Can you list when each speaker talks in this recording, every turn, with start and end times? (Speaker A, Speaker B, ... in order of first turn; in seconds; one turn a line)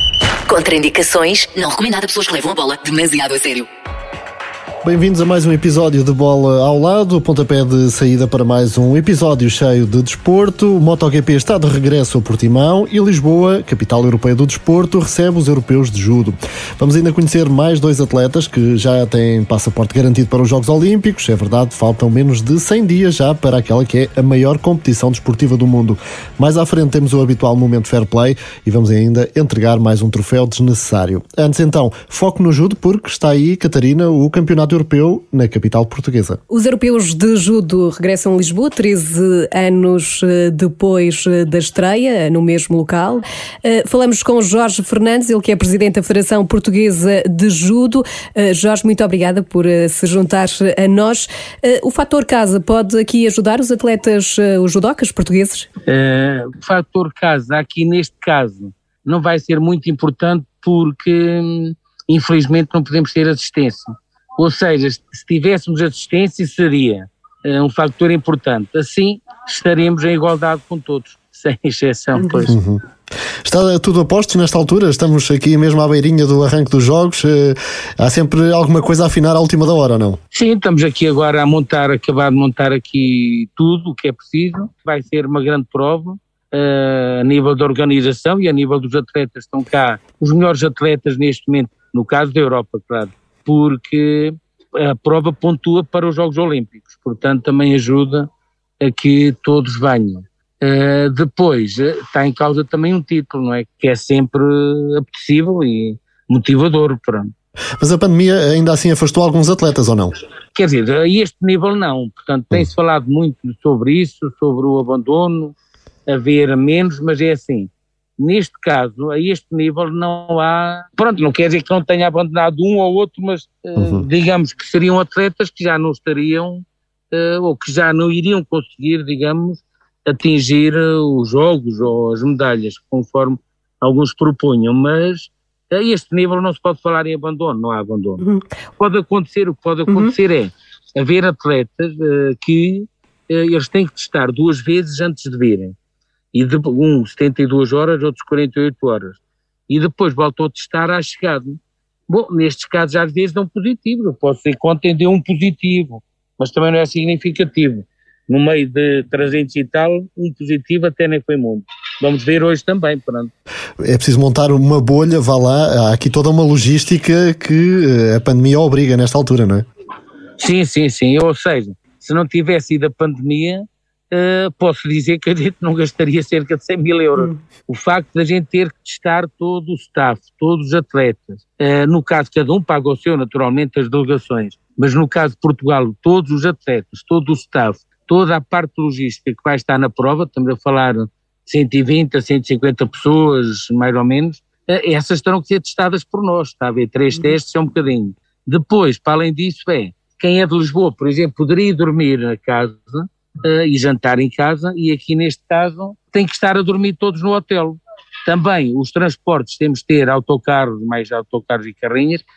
Speaker A: 0.5-3.7
Speaker B: 4.8-36.4
Speaker C: 36.5-55.7
Speaker D: 55.9-72.5
Speaker B: 72.5-72.8
Speaker B: 73.4-80.2
Speaker D: 80.3-98.3
Speaker D: 98.8-107.3
Speaker B: 107.8-110.2
Speaker D: 110.5-115.5
Speaker D: 116.1-138.2
Speaker B: 123.8-124.1
Speaker D: 138.8-145.7
Speaker C: 139.9-140.1
Speaker D: 146.3-163.3
Speaker B: 163.8-169.7
Speaker D: 170.4-212.2